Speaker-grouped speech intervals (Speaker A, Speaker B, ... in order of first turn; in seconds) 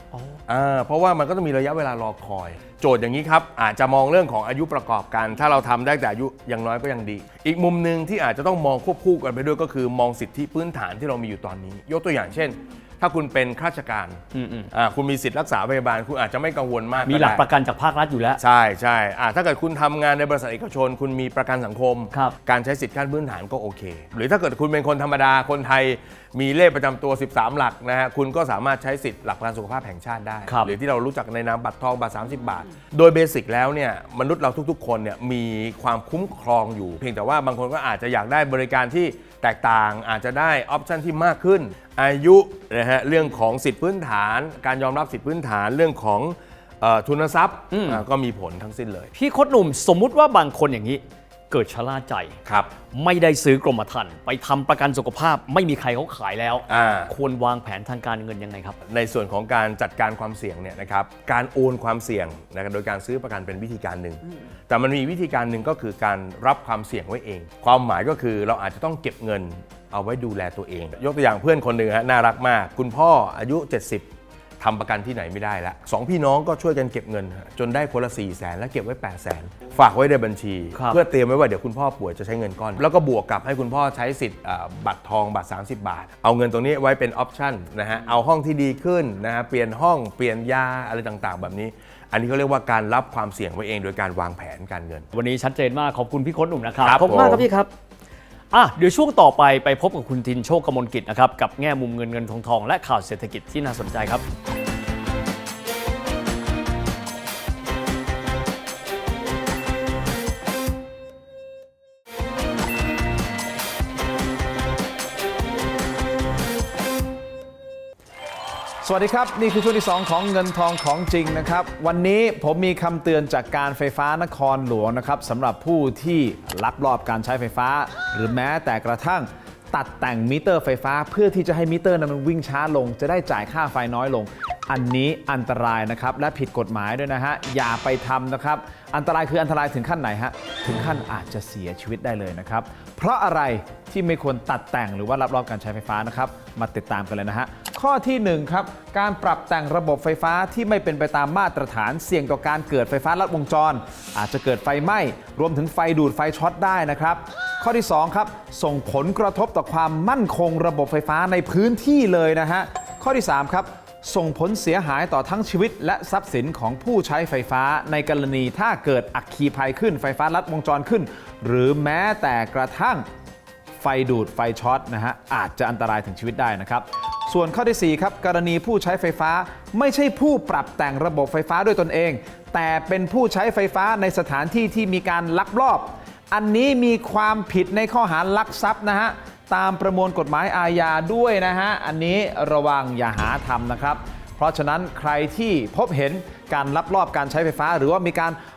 Speaker A: 0.1-0.4, 14.3-14.7, 17.0-18.4, 47.7-48.0, 49.1-52.4, 52.9-58.8, 95.1-97.7, 98.5-104.2
Speaker B: 0.5-17.4, 18.4-49.1, 52.5-52.7, 56.7-57.1, 58.9-74.1, 74.6-95.0, 96.8-97.4
Speaker C: 118.8-173.0, 173.8-198.4